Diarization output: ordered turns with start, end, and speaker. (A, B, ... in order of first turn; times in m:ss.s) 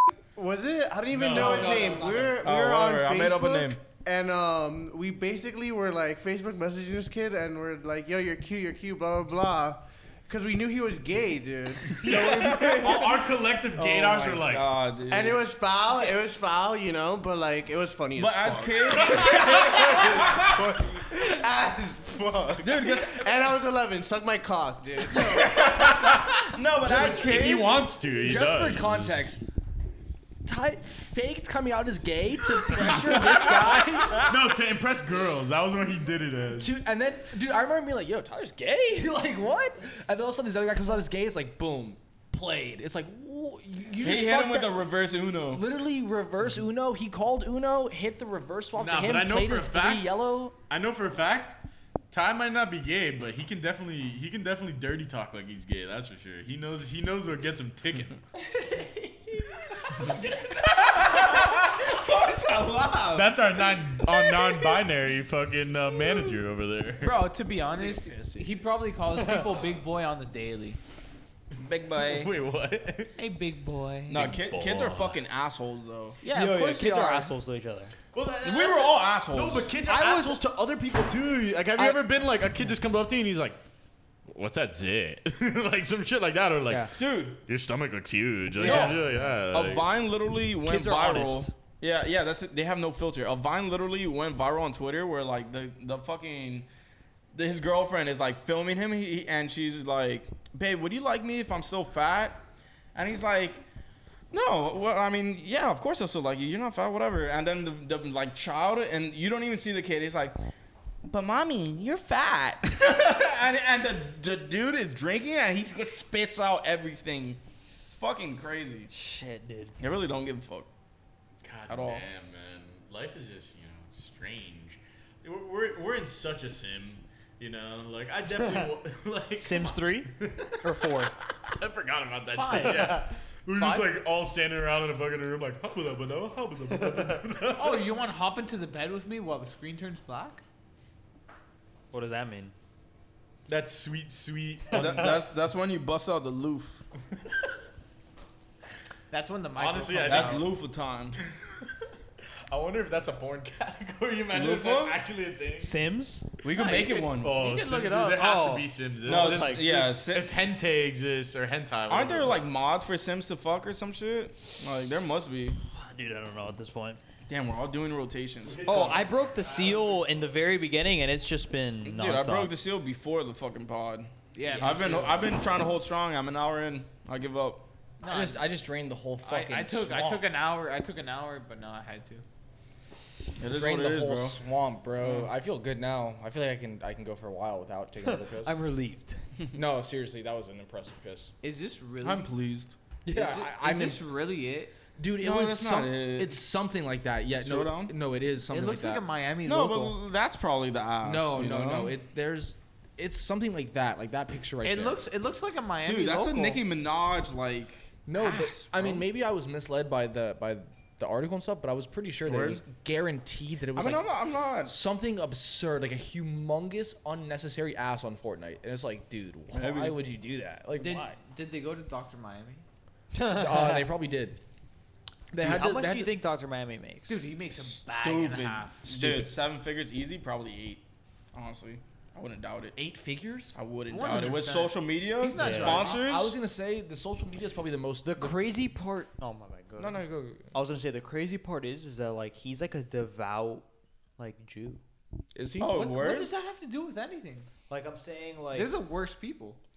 0:00.4-0:13.3 A
0:01.2-0:01.7 B
0:01.3-0:02.5 C
0:02.4-0:03.8 B
0:12.0-0:13.2 B
0:12.0-0:14.7 D
0:13.7-0:15.4 B
0:15.1-0:25.7 A
0:18.2-0:20.5 B
0:19.5-0:20.1 D
0:22.6-0:23.2 B
0:25.1-0:25.9 C
0:25.4-0:27.8 B
0:25.9-0:29.2 D
0:26.8-0:29.4 C
0:30.4-0:34.4 C
0:32.7-0:36.8 D
0:36.6-0:44.8 C
0:44.0-0:45.7 B
0:45.5-0:50.6 C
0:48.8-0:50.2 D
0:50.7-0:51.6 D
0:52.1-0:58.2 D
0:58.6-0:59.5 E
1:00.8-1:03.3 B
1:03.1-1:07.2 D
1:07.0-1:10.8 E
1:07.7-1:08.5 C
1:11.6-1:12.3 B
1:12.0-1:13.1 D
1:13.2-1:14.3 E
1:14.1-1:16.3 B
1:14.1-1:15.2 D
1:16.2-1:17.9 F
1:16.4-1:17.3 C
1:18.1-1:23.6 D
1:18.4-1:19.7 B
1:19.9-1:20.4 F
1:24.3-1:29.9 D
1:26.7-1:26.9 F
1:27.0-1:27.4 B
1:28.6-1:29.0 F
1:28.6-1:29.0 C
1:28.7-1:29.0 B
1:29.5-1:36.7 B
1:30.6-1:31.5 F
1:37.3-1:42.4 B
1:43.0-1:43.6 B
1:44.3-1:50.4 B
1:51.0-1:58.9 B
1:58.9-1:59.8 F
1:59.8-2:00.7 B
2:01.4-2:17.9 D
2:01.7-2:02.1 B
2:09.4-2:10.1 F
2:10.6-2:11.1 F
2:12.3-2:13.9 E
2:16.8-2:17.1 F
2:17.6-2:20.4 E
2:21.9-2:22.5 F
2:23.5-2:25.2 D
2:24.7-2:26.8 B
2:29.1-2:30.5 E
2:29.6-2:30.5 D
2:30.1-2:31.2 B
2:32.5-2:35.8 D
2:34.3-2:35.0 B
2:35.6-2:36.3 F
2:36.4-2:37.4 B
2:36.5-2:38.6 E
2:37.2-2:42.4 D
2:38.2-2:39.9 F
2:39.0-2:40.3 B
2:41.9-2:45.6 B
2:45.7-2:47.0 F
2:47.3-2:49.0 B
2:48.5-2:50.0 D
2:48.7-2:52.5 F
2:51.8-2:57.7 B
2:54.3-2:55.1 E
2:54.5-2:55.2 C
2:58.0-2:58.5 E
2:58.1-3:00.3 C
2:59.2-3:02.2 E
3:03.4-3:04.4 B
3:03.5-3:08.6 C
3:05.0-3:05.3 B
3:08.0-3:09.2 F
3:09.5-3:11.3 C
3:11.4-3:12.3 E
3:12.0-3:12.8 B
3:13.0-3:14.0 C
3:13.1-3:14.8 E
3:15.0-3:19.0 C
3:15.2-3:16.4 B
3:17.3-3:18.0 B
3:18.5-3:20.0 E
3:19.4-3:22.0 B
3:21.0-3:25.0 C
3:24.6-3:26.6 E
3:25.8-3:29.1 B
3:28.1-3:41.2 C
3:32.2-3:32.6 B
3:33.7-3:34.7 B
3:39.5-3:40.0 B
3:40.7-3:42.6 E
3:43.1-3:43.9 F
3:43.3-3:44.4 C
3:45.3-3:46.1 C
3:45.3-3:47.2 F
3:47.1-3:48.8 E
3:48.0-3:52.8 B
3:48.9-3:49.2 F
3:52.8-3:53.6 C
3:53.5-3:56.4 B
3:53.9-3:56.1 E
3:55.4-3:55.8 F
3:55.6-3:58.4 C
3:58.0-4:03.7 F
3:59.8-4:00.5 C
4:04.2-4:04.8 F
4:05.3-4:06.0 C
4:05.6-4:06.3 B
4:05.9-4:07.5 E
4:07.7-4:08.7 F
4:08.5-4:09.6 E